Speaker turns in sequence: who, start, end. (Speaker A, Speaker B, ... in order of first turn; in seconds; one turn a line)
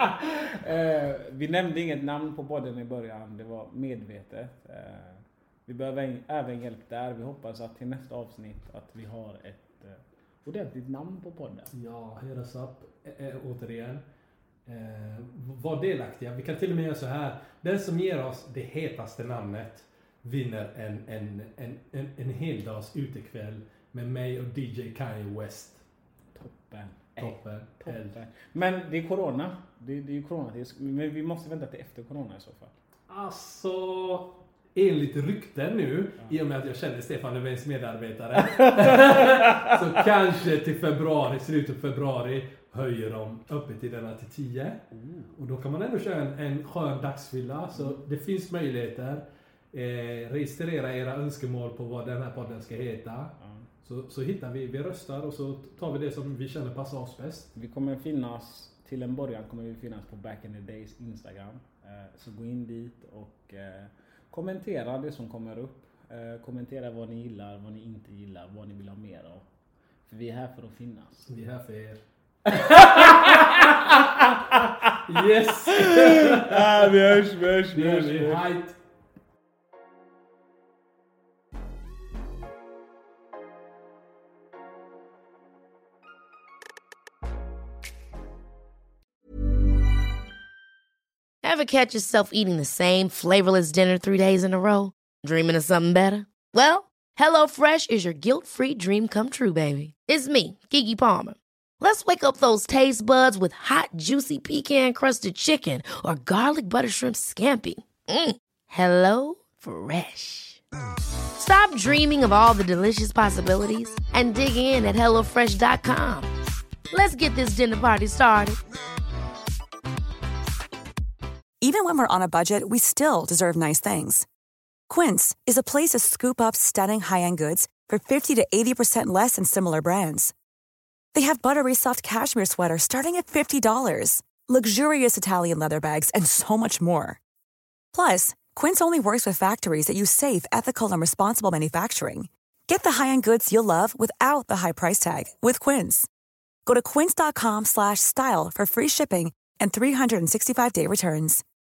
Speaker A: 0.2-11.7
Speaker B: 11.7-14.0
Speaker B: 14.7-25.8
Speaker A: 26.4-32.7
Speaker B: 27.2-28.1
Speaker B: 33.1-44.8
Speaker A: 38.4-39.9
Speaker A: 44.9-45.4
Speaker B: 45.4-57.5
Speaker A: 53.4-53.7
Speaker A: 57.5-69.5
Speaker A: 70.1-71.3
Speaker B: 71.3-78.8
Speaker A: 72.5-75.0
Speaker A: 75.7-78.5
Speaker C: 91.4-110.6
Speaker C: 111.4-116.3
Speaker C: 116.9-118.6
Speaker D: 121.6-124.3
Speaker D: 124.9-130.3
Speaker D: 131.1-137.2
Speaker D: 137.9-146.1
Speaker D: 146.7-151.4